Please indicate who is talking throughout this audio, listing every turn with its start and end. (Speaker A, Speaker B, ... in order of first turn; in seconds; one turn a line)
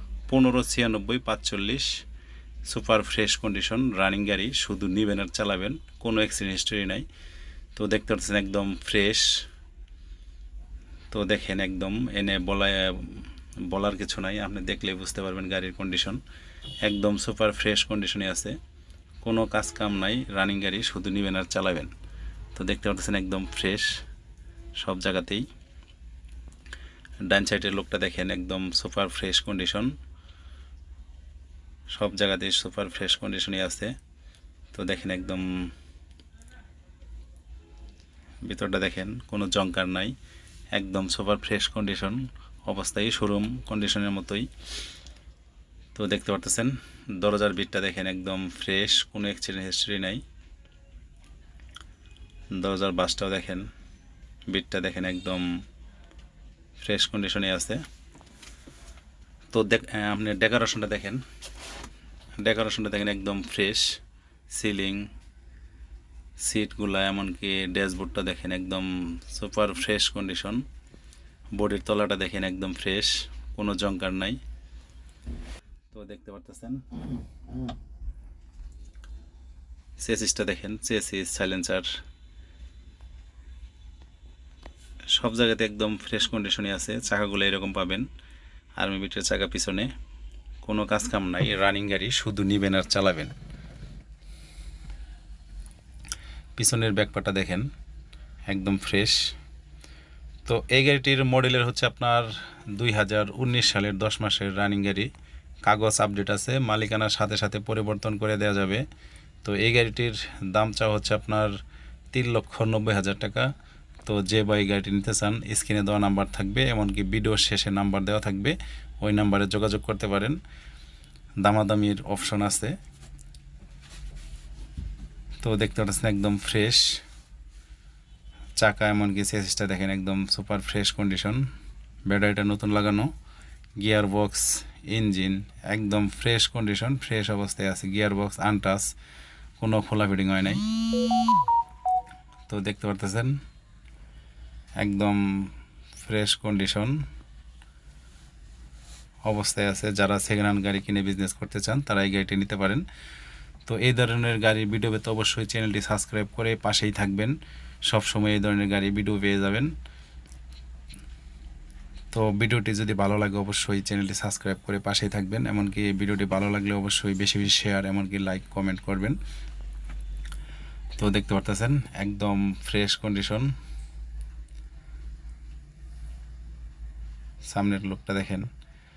Speaker A: 0.3-2.0
Speaker A: 2.7-7.1
Speaker A: 7.8-9.4
Speaker A: 11.1-16.2
Speaker A: 16.8-18.6
Speaker A: 19.2-21.9
Speaker A: 22.6-23.9
Speaker A: 24.8-25.5
Speaker A: 27.2-29.9
Speaker A: 31.9-33.9
Speaker A: 34.7-35.7
Speaker A: 38.4-40.1
Speaker A: 40.7-44.5
Speaker A: 46.0-50.2
Speaker A: 52.5-53.7
Speaker A: 54.5-55.6
Speaker A: 56.8-57.8
Speaker A: 59.5-61.2
Speaker A: 62.4-64.0
Speaker A: 64.5-65.1
Speaker A: 66.4-70.6
Speaker A: 71.6-74.4
Speaker A: 75.9-76.8
Speaker A: 80.0-81.9
Speaker A: 85.1-88.1
Speaker A: 88.8-89.9
Speaker A: 90.6-93.3
Speaker A: 96.6-97.7
Speaker A: 98.5-99.2
Speaker A: 100.5-105.1
Speaker A: 105.7-108.8
Speaker A: 109.4-111.5
Speaker A: 112.1-113.5
Speaker A: 114.0-120.4
Speaker A: 121.4-122.8
Speaker A: 125.4-127.0
Speaker A: 128.6-131.5
Speaker A: 132.1-133.1
Speaker A: 133.8-138.9
Speaker A: 139.6-140.6
Speaker A: 142.5-143.4
Speaker A: 144.8-147.0
Speaker A: 149.3-152.8
Speaker A: 153.7-157.4
Speaker A: 157.9-159.7
Speaker A: 162.1-169.2
Speaker A: 171.0-173.5
Speaker A: 177.5-178.5